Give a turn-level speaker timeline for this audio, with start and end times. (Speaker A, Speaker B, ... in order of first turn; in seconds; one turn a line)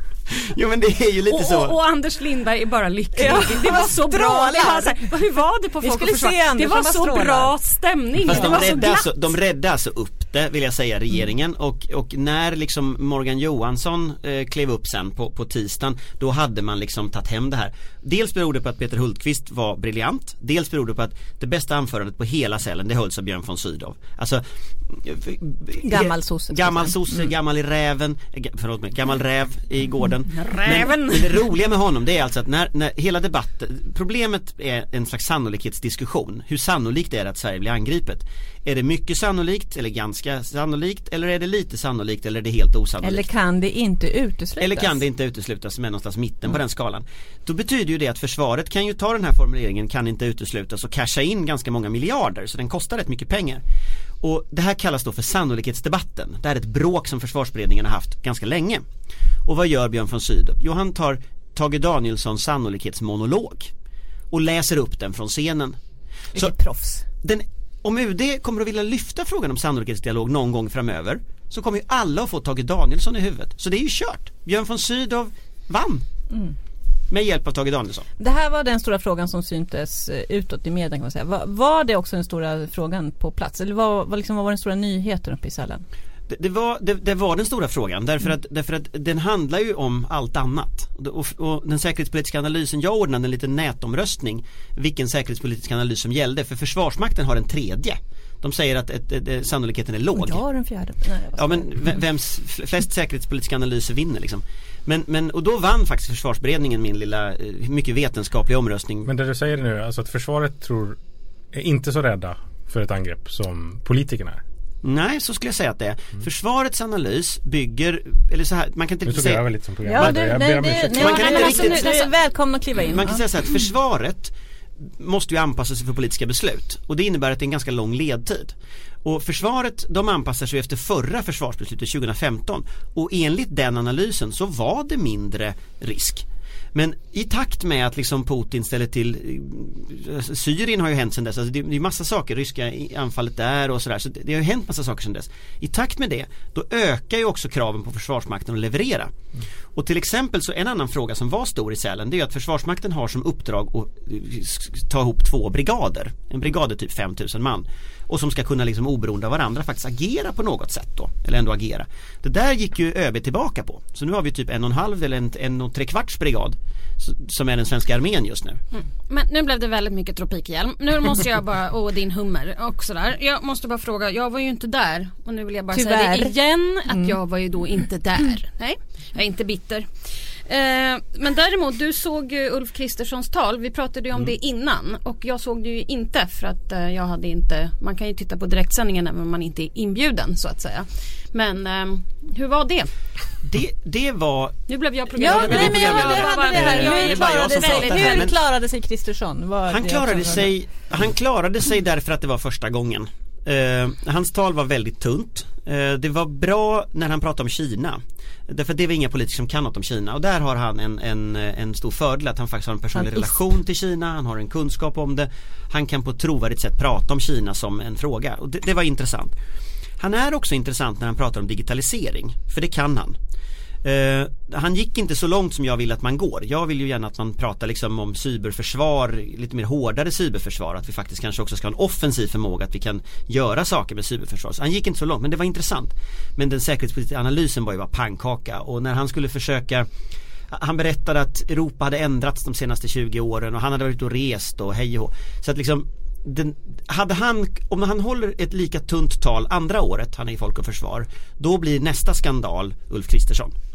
Speaker A: 0.3-1.8
Speaker B: 1.3-9.3
Speaker C: 3.1-5.1
Speaker C: 5.8-7.5
Speaker A: 8.2-43.3
Speaker C: 8.3-8.6
Speaker C: 25.8-27.0
Speaker B: 30.3-31.5
Speaker C: 43.0-45.0
Speaker A: 44.6-53.6
Speaker A: 54.2-58.8
Speaker A: 59.5-63.7
Speaker A: 64.3-65.8
Speaker C: 66.3-67.0
Speaker A: 67.2-76.0
Speaker A: 77.1-78.1
Speaker C: 78.2-85.8
Speaker A: 86.3-100.4
Speaker C: 100.1-101.9
Speaker A: 101.3-109.1
Speaker D: 109.0-111.0
Speaker D: 111.5-114.4
Speaker A: 114.8-120.2
Speaker D: 119.0-121.3
Speaker C: 119.8-123.2
Speaker A: 120.9-122.0
Speaker B: 121.0-122.1
Speaker A: 122.8-124.3
Speaker A: 124.9-149.1
Speaker A: 149.8-168.6
Speaker B: 168.7-179.8
Speaker C: 175.7-176.3
Speaker C: 176.9-177.2
Speaker B: 180.5-192.9
Speaker A: 193.4-194.6
Speaker B: 194.7-198.3
Speaker C: 195.2-200.5
Speaker A: 195.2-198.4
Speaker A: 199.7-219.3
Speaker C: 212.9-213.4
Speaker A: 220.0-223.2
Speaker A: 223.8-239.9
Speaker A: 240.5-253.5